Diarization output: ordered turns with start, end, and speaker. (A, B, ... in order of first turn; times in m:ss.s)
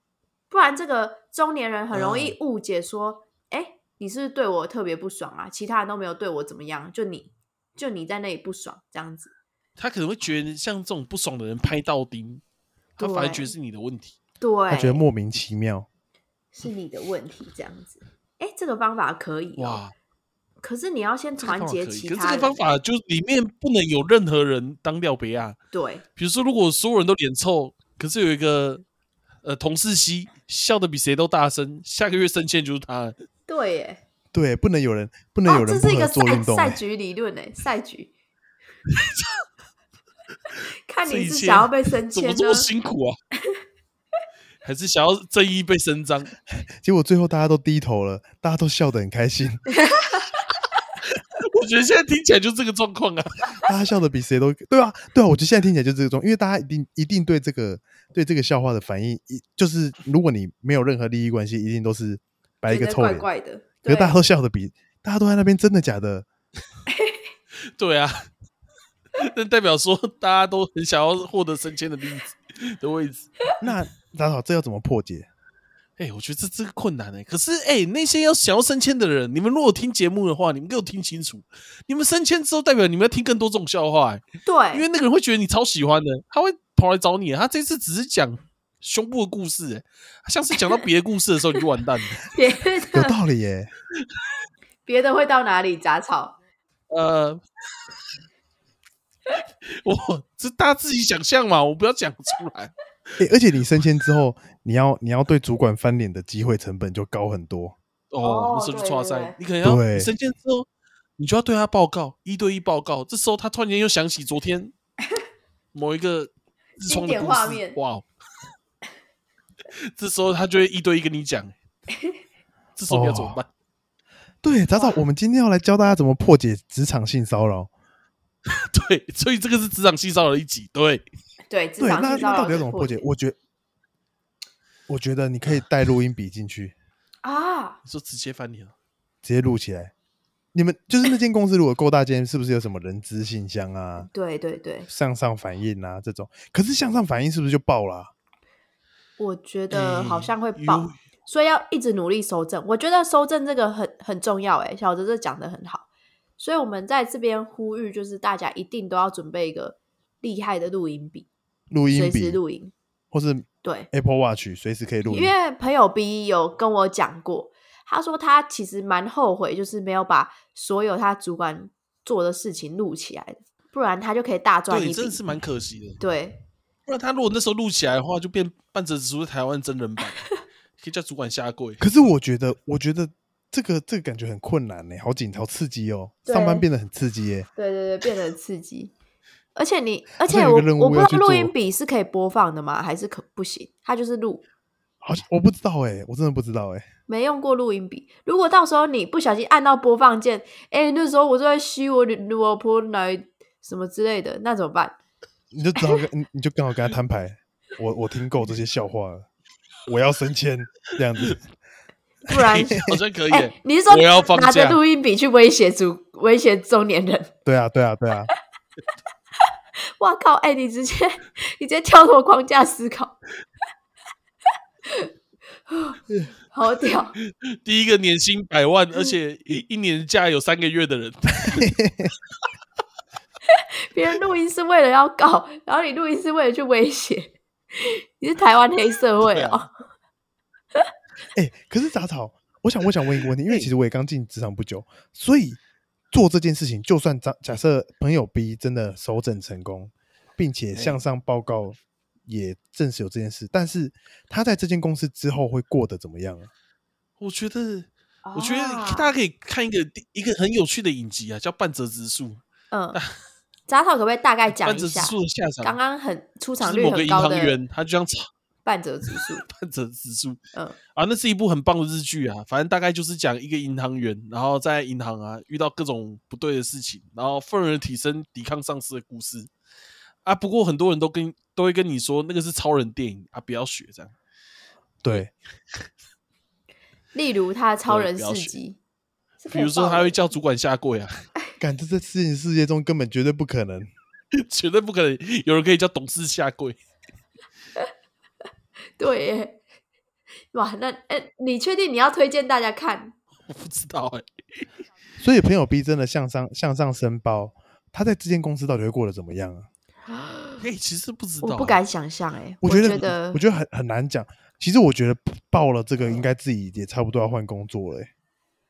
0:00.5-0:09.3 A
0:01.9-0:02.4 B
0:09.8-0:12.4 B
0:13.0-0:13.5 A
0:13.0-0:14.2 B
0:14.4-0:15.0 A
0:14.7-0:15.9 C
0:16.5-0:19.8 A
0:19.6-0:19.9 B
0:20.6-0:22.6 A
0:21.4-0:25.6 B
0:25.7-0:26.0 A
0:26.2-0:28.8 B
0:29.4-0:33.1 B
0:33.5-0:34.0 A
0:34.3-0:36.8 C
0:35.5-0:38.1 A
0:38.9-0:39.4 B
0:40.9-0:42.7 A
0:41.0-0:43.2 B
0:44.6-0:46.3 B
0:46.8-0:49.6 C
0:49.8-0:50.2 A
0:51.4-0:53.5 B
0:53.6-1:03.3 C
1:02.7-1:04.2 A
1:03.8-1:06.3 C
1:06.9-1:07.2 A
1:07.8-1:08.3 B
1:09.2-1:13.3 B
1:13.6-1:15.3 C
1:16.0-1:32.2 B
1:24.4-1:24.9 A
1:32.3-1:33.2 A
1:32.9-1:33.7 C
1:34.9-1:36.4 A
1:36.9-1:37.4 B
1:39.6-1:42.7 B
1:43.2-1:47.8 C
1:48.1-1:50.7 B
1:48.2-1:49.4 A
1:49.6-1:50.1 C
1:51.2-1:54.7 B
1:55.7-1:58.1 B
1:56.9-1:57.8 A
1:59.8-2:01.5 B
2:02.8-2:03.5 B
2:02.9-2:03.4 C
2:04.4-2:07.7 C
2:04.8-2:05.0 A
2:08.5-2:11.0 B
2:11.5-2:13.0 A
2:11.8-2:13.4 C
2:14.9-2:16.7 C
2:17.2-2:17.8 A
2:17.8-2:18.7 B
2:19.2-2:19.9 C
2:20.5-2:24.1 C
2:24.0-2:24.9 A
2:24.9-2:28.1 C
2:29.2-2:35.9 A
2:29.7-2:31.0 B
2:36.4-2:41.3 A
2:41.7-2:42.4 C
2:41.9-2:42.7 A
2:43.1-2:45.3 C
2:43.6-2:43.9 A
2:45.0-2:55.2 A
2:54.7-2:56.0 B
2:56.0-2:56.4 A
2:56.9-3:00.2 B
3:00.8-3:01.9 B
3:01.8-3:07.5 C
3:06.3-3:06.7 A
3:07.6-3:08.9 A
3:09.6-3:14.4 A
3:10.2-3:11.5 C
3:15.0-3:16.8 C
3:17.1-3:25.0 A
3:25.5-3:29.3 C
3:29.9-3:31.4 C
3:32.3-3:37.3 A
3:32.4-3:34.8 B
3:37.5-3:38.3 C
3:40.0-3:43.2 A
3:45.7-3:46.0 A
3:46.5-3:47.2 A
3:47.4-3:51.7 B
3:51.5-3:52.1 C
3:53.5-3:59.7 A
3:59.2-3:59.6 B
4:01.4-4:05.6 C
4:06.1-4:16.5 C
4:10.8-4:11.0 B
4:17.2-4:22.4 B
4:18.2-4:19.1 A
4:22.7-4:23.0 A
4:23.7-4:27.6 A
4:24.5-4:25.8 B
4:26.6-4:28.3 B
4:28.6-4:29.4 A
4:29.1-4:30.4 B
4:31.0-4:39.5 B
4:40.2-4:44.1 B
4:45.0-4:45.3 C
4:47.1-4:48.8 A
4:47.9-4:48.6 B
4:49.4-4:50.2 A
4:49.5-4:51.2 B
4:51.6-4:53.9 C
4:54.3-4:56.8 B
4:59.0-4:59.6 A
5:00.5-5:03.1 A
5:03.5-5:04.3 B
5:05.2-5:09.7 C
5:10.1-5:10.6 A
5:10.6-5:11.8 B
5:11.4-5:13.4 A
5:12.6-5:18.1 C